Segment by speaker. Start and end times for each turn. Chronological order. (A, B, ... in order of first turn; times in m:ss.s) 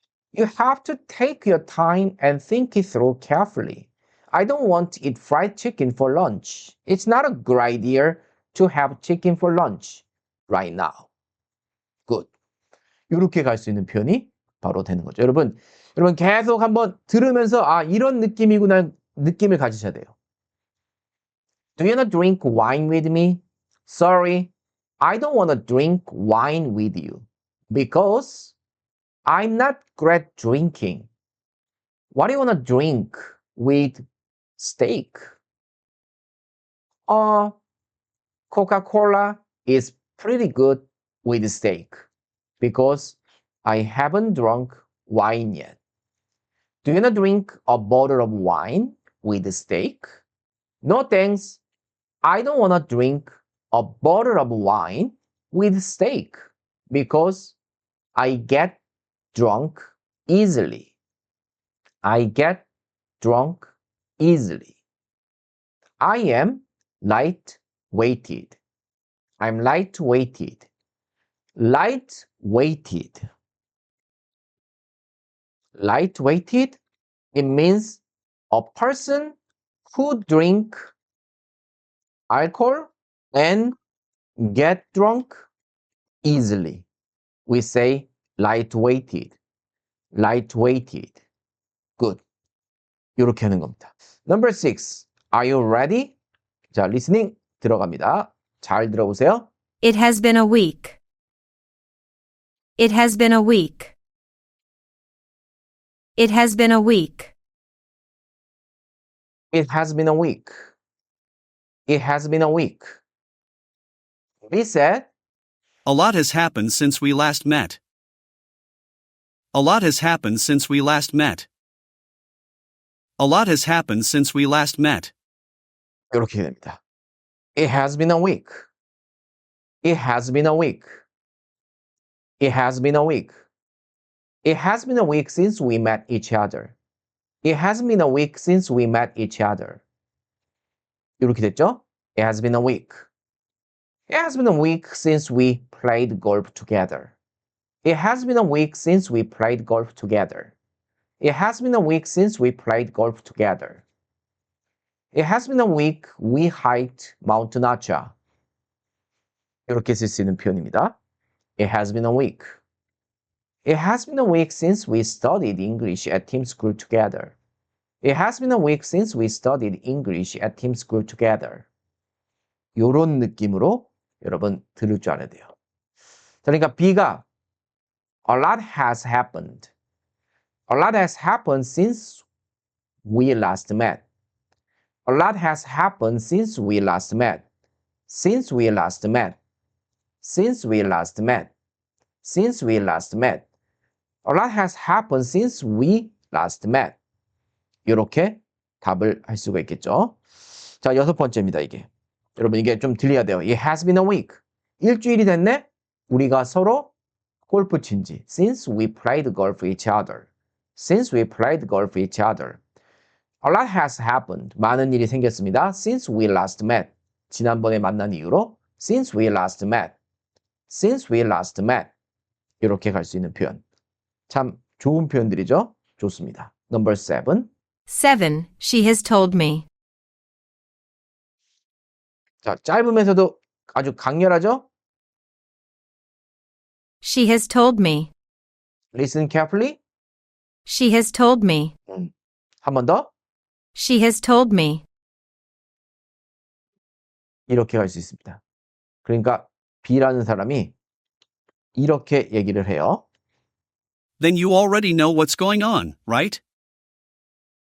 0:00.3-0:11.1 A
0:13.1-0:20.1 A
0:21.8-0:28.6 A
0:29.3-0:31.1 A
0:32.1-0:34.0 A
0:34.6-0:35.2 A
0:37.1-0:37.6 A
0:38.5-0:42.0 A
0:42.6-0:45.8 A
0:46.8-0:50.1 A
0:50.8-0:51.6 A
0:52.2-0:56.4 A
0:56.9-0:57.6 A
0:58.2-0:58.8 A
0:59.3-1:00.9 A
1:02.0-1:02.7 A
1:03.2-1:04.7 A
1:06.0-1:08.6 A
1:09.4-1:10.7 A
1:11.6-1:13.2 A
1:15.8-1:16.8 A
1:17.3-1:19.4 A
1:19.9-1:20.8 A
1:22.3-1:23.8 A
1:24.4-1:25.4 A
1:26.2-1:26.8 A
1:27.5-1:29.4 A
1:30.1-1:31.2 A
1:33.2-1:36.2 A
1:36.7-1:39.5 A
1:39.8-1:41.0 B
1:42.8-1:43.9 B
1:46.2-1:47.3 B
1:49.5-1:50.5 A
1:51.9-1:53.0 A
1:54.5-1:55.1 A
1:55.8-1:57.8 C
1:59.5-2:01.5 C
2:03.2-2:05.1 C
2:06.1-2:06.8 A
2:07.6-2:08.7 A
2:09.8-2:10.9 A
2:12.4-2:13.4 A
2:14.4-2:16.8 A
2:17.4-2:19.8 A
2:21.2-2:23.0 A
2:24.1-2:27.1 A
2:27.8-2:30.5 A
2:31.2-2:33.8 A
2:35.1-2:38.1 A
2:39.7-2:40.9 A
2:41.6-2:42.5 A
2:43.6-2:47.4 A
2:48.0-2:51.7 A
2:52.8-2:55.5 A
2:56.4-2:57.2 A
2:58.3-2:59.7 A
3:00.7-3:02.2 A
3:03.1-3:04.0 A
3:05.1-3:07.4 A
3:08.1-3:09.4 A
3:10.2-3:11.5 A
3:12.2-3:13.4 A
3:14.2-3:17.0 A
3:17.9-3:20.2 A
3:20.8-3:26.9 A
3:27.5-3:32.6 A
3:33.4-3:40.0 A
3:40.7-3:41.9 A
3:42.6-3:43.6 A
3:44.3-3:47.5 A
3:47.9-3:49.7 B
3:52.4-3:54.7 A
3:57.0-3:58.1 B
3:58.9-3:59.8 A
4:00.7-4:01.7 B
4:02.6-4:03.1 A
4:03.8-4:04.8 B
4:07.5-4:08.4 A
4:09.0-4:10.7 A
4:11.8-4:13.0 A
4:14.2-4:16.4 C